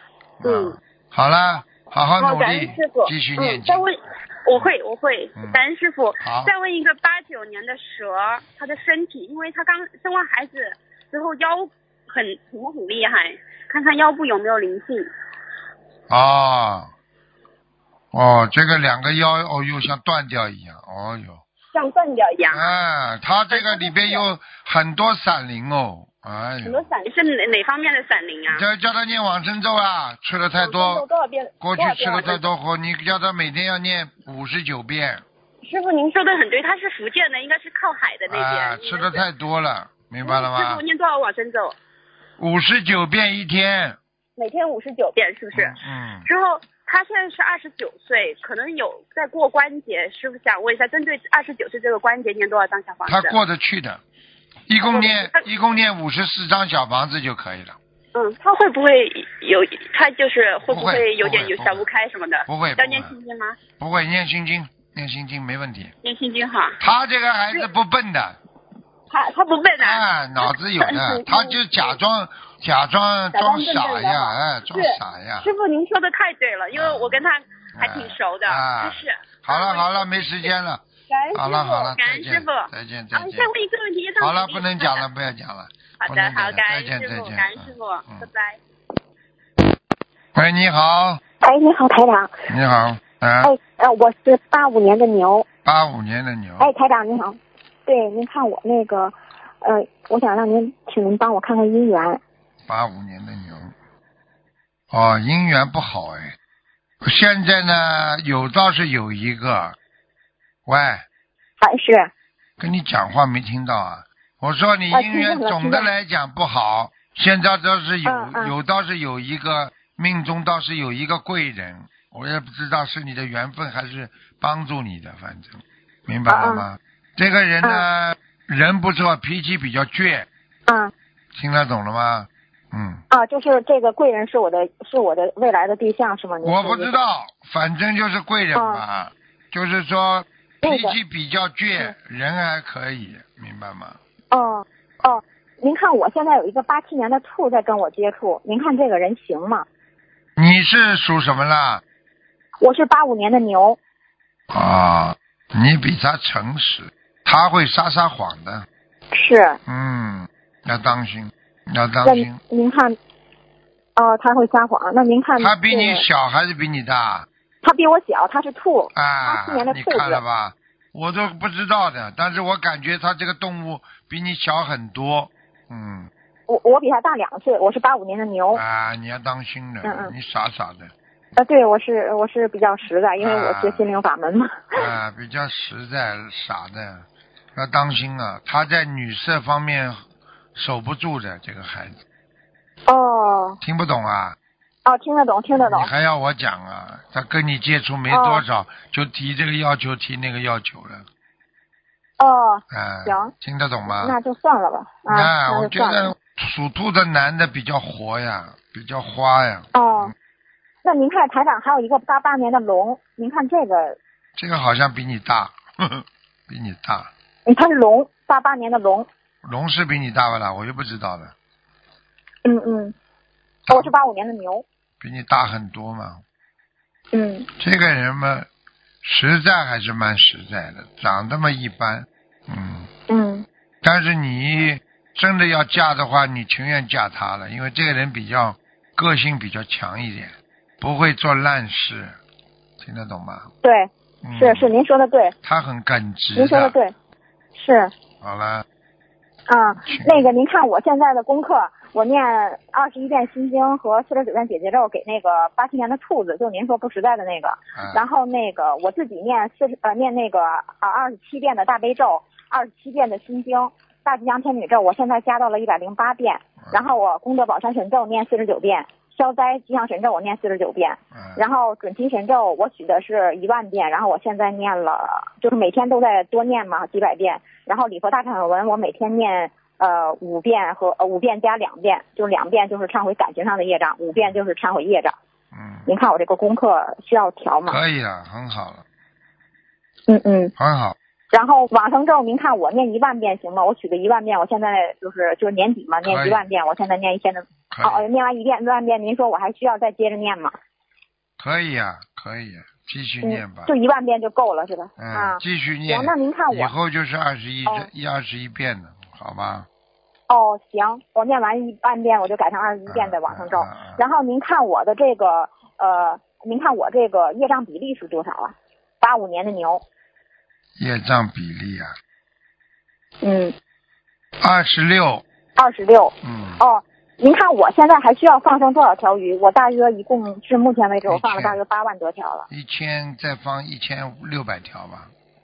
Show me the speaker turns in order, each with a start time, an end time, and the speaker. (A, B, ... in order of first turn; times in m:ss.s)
0:00.4-0:03.8 A
0:00.4-0:00.8 B
0:02.2-0:15.1 B
0:06.2-0:06.5 A
0:16.1-0:16.9 A
0:18.1-0:21.4 A
0:21.7-0:22.7 B
0:22.5-0:26.8 A
0:23.5-0:24.2 B
0:26.6-0:28.6 B
0:28.5-0:31.0 A
0:30.6-0:32.4 B
0:31.6-0:35.2 A
0:35.6-0:39.2 B
0:38.3-0:40.8 A
0:40.2-0:41.8 B
0:42.4-0:44.0 A
0:44.4-0:53.3 B
0:45.5-0:46.3 A
0:53.0-0:54.0 A
0:54.7-0:57.8 A
0:54.8-0:55.5 B
0:58.1-1:03.6 B
1:00.7-1:01.8 A
1:02.4-1:03.1 A
1:03.8-1:05.9 A
1:06.0-1:06.8 B
1:06.8-1:08.4 A
1:09.1-1:11.9 B
1:09.8-1:15.5 A
1:13.3-1:20.3 B
1:16.7-1:17.2 A
1:17.8-1:23.5 A
1:21.1-1:25.0 B
1:24.2-1:28.3 A
1:26.0-1:28.6 B
1:30.3-1:31.2 A
1:31.4-1:32.4 C
1:32.5-1:33.5 A
1:33.4-1:35.4 C
1:35.6-1:36.7 A
1:36.6-1:42.2 C
1:42.7-1:43.7 A
1:44.9-1:46.4 A
1:47.0-1:49.8 A
1:50.6-1:51.0 A
1:51.6-1:52.1 C
1:52.6-2:10.3 A
1:54.9-1:55.9 C
1:58.0-1:58.5 C
2:06.3-2:06.6 C
2:10.7-2:10.9 C
2:11.3-2:13.0 A
2:13.1-2:16.9 C
2:16.4-2:24.0 A
2:18.5-2:18.8 C
2:20.6-2:21.0 C
2:24.3-2:29.6 C
2:30.4-2:31.8 A
2:32.6-2:33.8 C
2:34.5-2:38.7 A
2:39.1-2:39.6 C
2:39.6-2:42.4 A
2:42.0-2:43.0 C
2:44.0-2:46.0 C
2:45.4-2:47.3 A
2:47.6-2:50.2 C
2:48.9-2:56.1 A
2:56.5-2:58.6 C
2:58.5-3:00.9 A
2:59.8-3:00.1 C
3:01.4-3:04.8 C
3:03.2-3:03.9 A
3:04.7-3:10.0 A
3:10.5-3:12.0 A
3:12.9-3:13.6 C
3:13.6-3:14.4 A
3:14.8-3:15.9 C
3:15.5-3:21.0 A
3:18.1-3:18.4 C
3:22.2-3:23.3 C
3:22.7-3:24.2 A
3:23.9-3:26.1 C
3:25.1-3:30.1 A
3:29.7-3:30.1 C
3:30.8-3:34.0 C
3:34.4-3:37.1 A
3:37.4-3:39.1 C
3:39.4-3:41.3 A
3:42.4-3:42.9 C
3:43.7-3:43.9 A
3:43.7-3:44.6 C
3:45.0-3:46.2 A
3:47.1-3:47.5 C
3:47.6-3:48.5 A
3:49.0-3:52.9 A
3:53.1-3:53.4 C
3:53.8-4:02.1 A
4:02.8-4:03.5 A
4:03.6-4:05.3 C
4:04.2-4:04.7 A
4:05.4-4:06.7 A
4:06.4-4:06.9 C
4:07.5-4:07.9 C
4:08.2-4:08.6 A
4:09.5-4:45.1 C
4:09.9-4:10.3 A
4:17.8-4:18.0 A
4:26.6-4:27.0 A
4:31.1-4:31.4 A
4:45.5-4:45.9 A
4:45.8-4:47.8 C
4:47.6-4:48.8 A
4:50.1-4:50.5 C
4:50.6-4:51.0 A
4:51.3-5:00.6 C
4:56.0-4:56.4 A
4:57.7-4:58.0 A
5:01.4-5:03.7 A
5:03.2-5:06.7 C
5:05.0-5:09.7 A
5:10.3-5:19.8 C
5:12.9-5:14.0 A
5:20.8-5:21.9 A
5:23.2-5:23.5 C
5:24.4-5:25.2 A
5:25.6-5:32.5 C
5:26.2-5:26.6 A
5:31.1-5:31.6 A
5:32.5-5:35.1 A